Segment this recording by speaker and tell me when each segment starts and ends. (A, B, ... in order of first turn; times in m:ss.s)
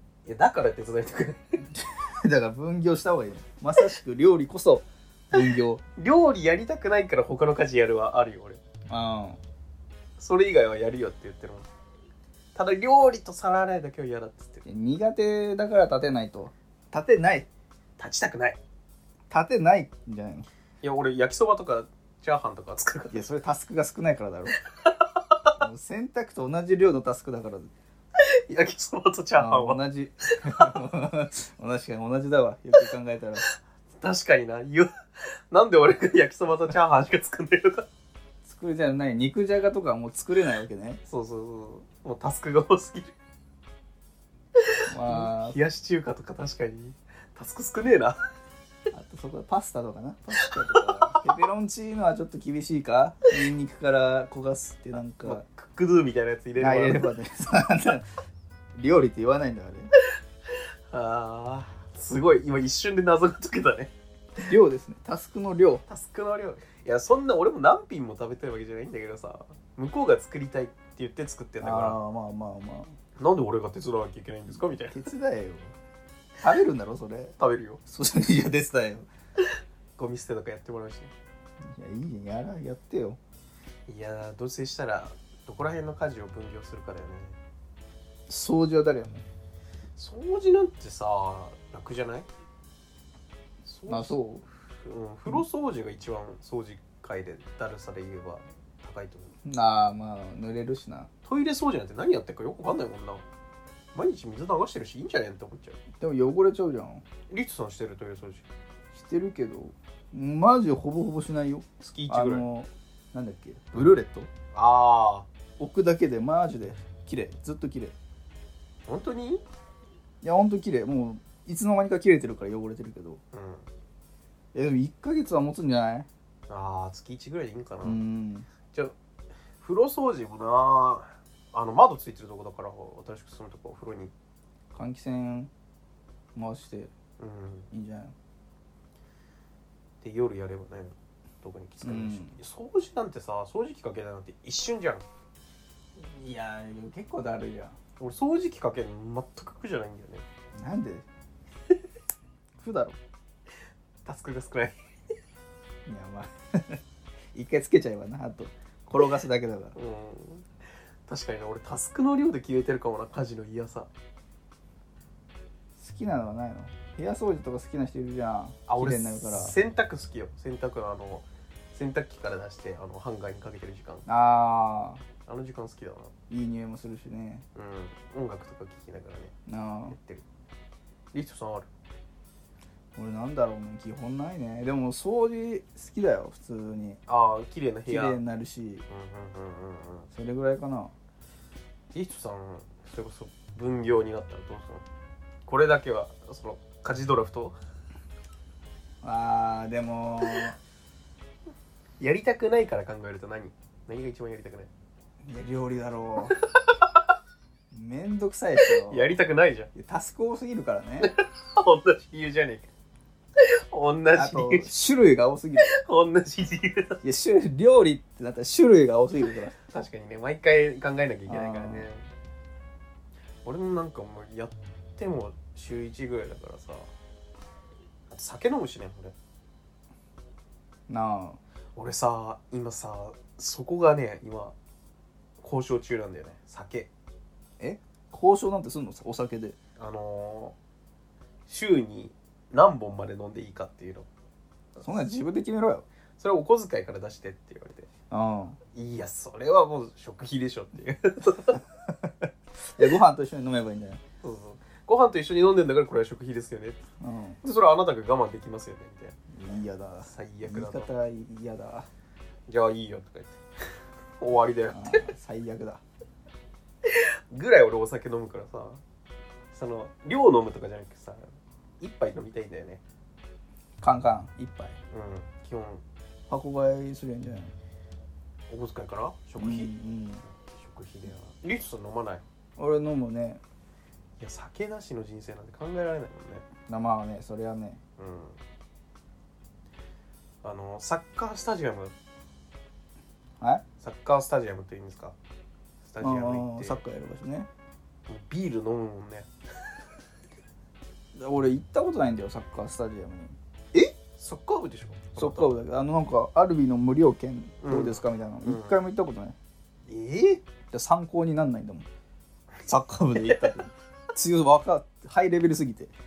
0:00.2-0:01.6 A
0:01.7-0:05.8 B
0:06.0-0:08.6 A
0:08.9-0:09.4 B
0:10.2-0:11.7 A
0:12.6-0:14.7 A
0:14.6-0:17.5 B
0:18.0-0:18.6 A
0:19.3-0:20.5 B
0:20.8-0:23.3 A
0:23.1-0:24.6 B
0:25.6-0:27.7 B
0:28.2-0:30.7 A
0:29.4-0:33.4 B
0:33.5-0:34.9 A
0:35.5-0:37.9 A
0:38.4-0:41.0 B
0:41.1-0:43.1 A
0:44.6-0:48.2 A
0:44.9-0:45.6 B
0:48.9-0:55.4 B
0:50.4-0:51.2 A
0:55.2-0:57.1 A
0:56.6-0:58.1 B
0:58.8-0:59.9 B
1:00.9-1:03.9 A
1:04.4-1:05.8 B
1:05.9-1:12.0 A
1:11.6-1:13.0 B
1:13.2-1:15.1 A
1:14.9-1:15.8 B
1:16.4-1:17.3 B
1:17.4-1:17.8 A
1:17.9-1:19.1 B
1:19.4-1:21.1 A
1:21.6-1:23.2 B
1:23.9-1:27.4 A
1:28.3-1:29.2 B
1:30.0-1:32.3 A
1:33.6-1:34.2 A
1:33.9-1:34.4 B
1:34.8-1:39.3 A
1:39.4-1:41.1 B
1:41.2-1:43.2 A
1:43.9-1:45.8 A
1:46.0-1:47.0 B
1:47.3-1:48.5 A
1:48.9-1:54.3 B
1:51.8-1:52.5 A
1:54.5-1:55.3 A
1:55.6-1:58.0 B
1:58.9-1:59.4 A
2:00.2-2:03.2 B
2:03.3-2:03.7 A
2:04.5-2:06.1 B
2:06.5-2:08.0 A
2:07.8-2:08.5 B
2:09.6-2:14.1 A
2:14.7-2:15.5 B
2:16.4-2:16.9 B
2:17.2-2:17.7 A
2:17.7-2:18.2 B
2:20.0-2:25.1 A
2:21.8-2:22.4 B
2:26.0-2:27.8 B
2:28.0-2:30.2 A
2:30.6-2:31.1 B
2:32.6-2:33.0 B
2:34.0-2:34.8 A
2:35.9-2:36.8 B
2:37.3-2:39.8 B
2:39.8-2:40.5 A
2:41.1-2:43.9 A
2:45.8-2:49.6 B
2:48.7-2:54.0 A
2:54.1-2:55.0 B
2:55.3-2:56.1 A
2:56.3-2:57.4 B
2:57.6-2:59.3 A
2:59.5-3:00.0 B
2:59.9-3:00.2 A
3:01.1-3:01.7 A
3:03.0-3:07.0 B
3:07.1-3:08.2 A
3:07.9-3:08.8 B
3:08.9-3:10.1 A
3:10.1-3:10.9 B
3:11.9-3:14.8 A
3:15.5-3:17.6 A
3:19.0-3:20.6 B
3:22.0-3:24.7 A
3:25.2-3:26.4 B
3:27.7-3:29.2 B
3:28.8-3:29.7 A
3:29.8-3:31.1 B
3:31.0-3:32.7 A
3:33.4-3:34.8 A
3:34.2-3:35.8 B
3:35.6-3:37.0 A
3:37.0-3:39.6 B
3:39.6-3:42.1 A
3:41.3-3:41.9 B
3:43.4-3:46.9 A
3:48.1-3:49.2 A
3:50.9-3:51.4 B
3:51.8-3:54.6 A
3:55.4-3:56.9 A
3:57.6-3:59.6 B
3:59.8-4:00.6 A
4:01.5-4:04.1 A
4:04.8-4:05.8 B
4:06.2-4:07.9 A
4:08.1-4:08.6 B
4:08.7-4:11.6 A
4:11.9-4:14.0 B
4:14.2-4:16.8 A
4:17.0-4:17.4 B
4:17.4-4:19.2 A
4:19.3-4:21.9 B
4:20.0-4:20.9 A
4:22.5-4:23.4 A
4:24.2-4:25.1 A
4:24.7-4:25.8 B
4:26.8-4:28.8 A
4:29.5-4:32.8 A
4:33.8-4:34.8 B
4:34.9-4:35.8 A
4:36.3-4:37.5 B
4:38.5-4:39.7 A
4:39.4-4:40.2 B
4:40.3-4:42.2 A
4:42.6-4:43.4 B
4:44.2-4:46.5 A
4:46.7-4:47.8 B
4:48.0-4:48.4 A
4:50.4-4:51.9 A
4:53.4-4:53.6 B
4:53.8-4:55.2 A
4:55.8-4:56.8 A
4:56.0-4:57.5 B
4:58.1-4:59.3 A
5:01.2-5:03.4 B
5:03.7-5:05.6 A
5:05.2-5:09.4 B
5:07.6-5:08.8 A
5:09.9-5:10.4 A
5:10.7-5:11.9 B
5:12.7-5:15.9 B
5:13.2-5:13.5 A